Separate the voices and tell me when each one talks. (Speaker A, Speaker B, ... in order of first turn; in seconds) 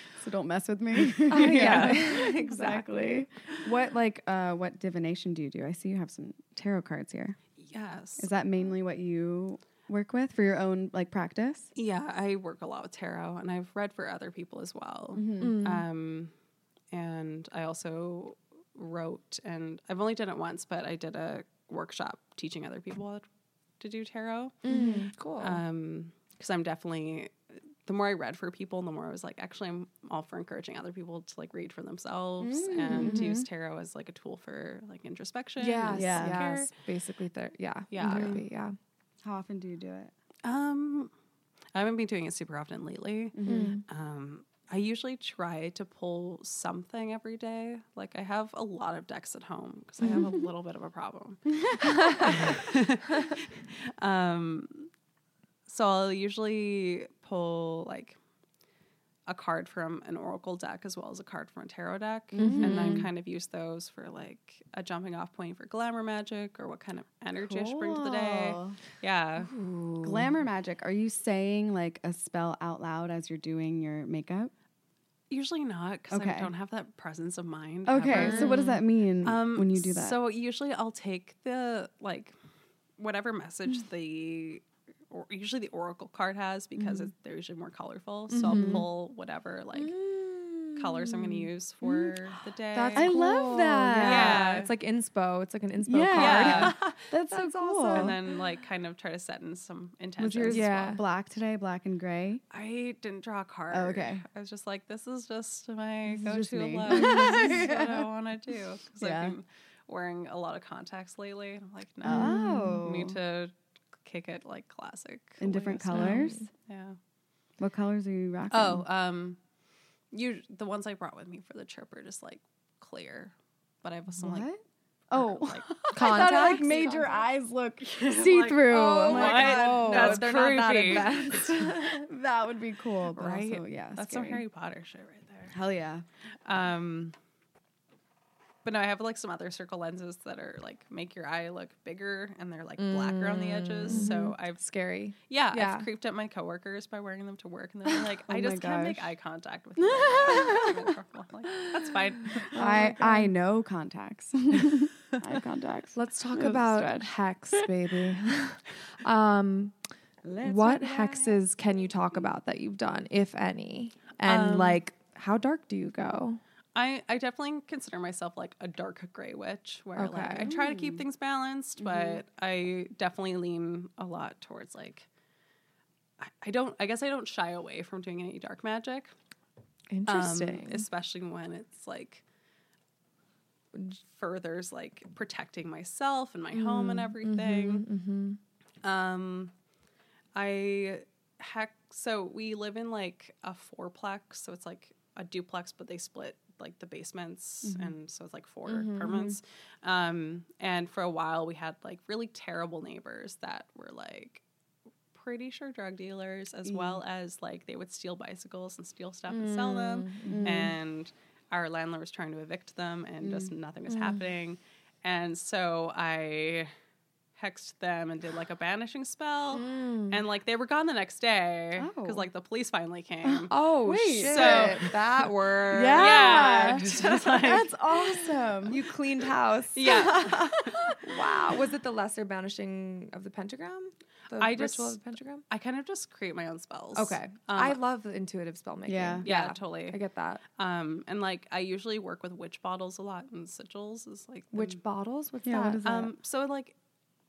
Speaker A: 0.2-7.4, 8.2-11.7, 15.2-15.6, 24.7-25.1, 32.4-33.5, 35.9-36.5, 38.0-38.5, 39.2-40.1, 43.4-43.7, 62.3-63.1, 67.4-68.8, 70.0-74.5, 76.1-76.5, 77.9-80.2, 88.5-88.9, 93.0-94.4, 95.8-98.2, 100.2-102.4, 103.7-104.2, 106.1-108.1, 109.0-109.3, 112.0-113.2, 115.4-116.5, 117.6-118.9, 124.2-124.6, 125.1-130.3, 131.8-134.4, 135.5-136.0, 143.9-144.3, 148.3-149.1, 149.8-150.8, 152.5-157.7, 160.2-161.3, 170.4-171.0, 197.7-197.9, 206.7-207.0, 210.2-210.8, 213.2-213.5, 221.8-222.3, 223.2-224.9, 225.7-228.8, 238.9-239.3, 245.4-246.1
Speaker B: 1.3-2.2, 7.6-8.3, 11.8-16.3, 16.9-23.3, 23.8-24.6, 25.4-27.3, 27.9-36.7, 37.9-38.4, 40.4-41.1, 41.7-54.9, 55.7-58.2, 59.3-69.5, 75.3-82.3, 83.0-90.0, 90.8-93.1, 94.0-94.7, 96.2-97.0, 97.9-101.0, 102.5-117.0, 118.5-119.4, 120.1-124.5, 125.2-127.0, 127.8-131.4, 133.1-135.6, 136.4-137.2, 138.7-144.6, 145.3-152.6, 164.3-164.8, 166.8-175.1, 176.2-179.1, 180.1-182.2, 184.0-187.8, 188.8-189.5, 190.3-204.4, 205.1-216.7, 217.4-223.5, 224.1-225.0, 225.9-227.8, 229.8-230.7, 234.3-237.8, 239.2-240.0, 240.6-244.8, 245.8-246.8
Speaker C: 1.3-3.3, 15.4-15.8, 24.6-25.6, 32.9-33.3, 35.6-38.8, 43.5-43.8, 51.8-52.5, 62.4-63.1, 69.4-70.3, 78.1-78.6, 86.8-87.1, 88.3-88.9, 89.8-92.1, 92.7-98.2, 100.5-101.0, 107.0-107.6, 115.9-116.5, 125.9-127.1, 128.7-132.1, 142.8-145.9, 152.5-153.3, 155.9-159.8, 160.4-166.4, 170.0-170.5, 171.8-172.2, 179.9-180.9, 186.5-188.4, 198.7-199.3, 209.3-210.7, 213.9-214.2, 219.5-220.2, 223.5-227.5, 228.7-235.4, 236.9-240.4, 244.5-246.1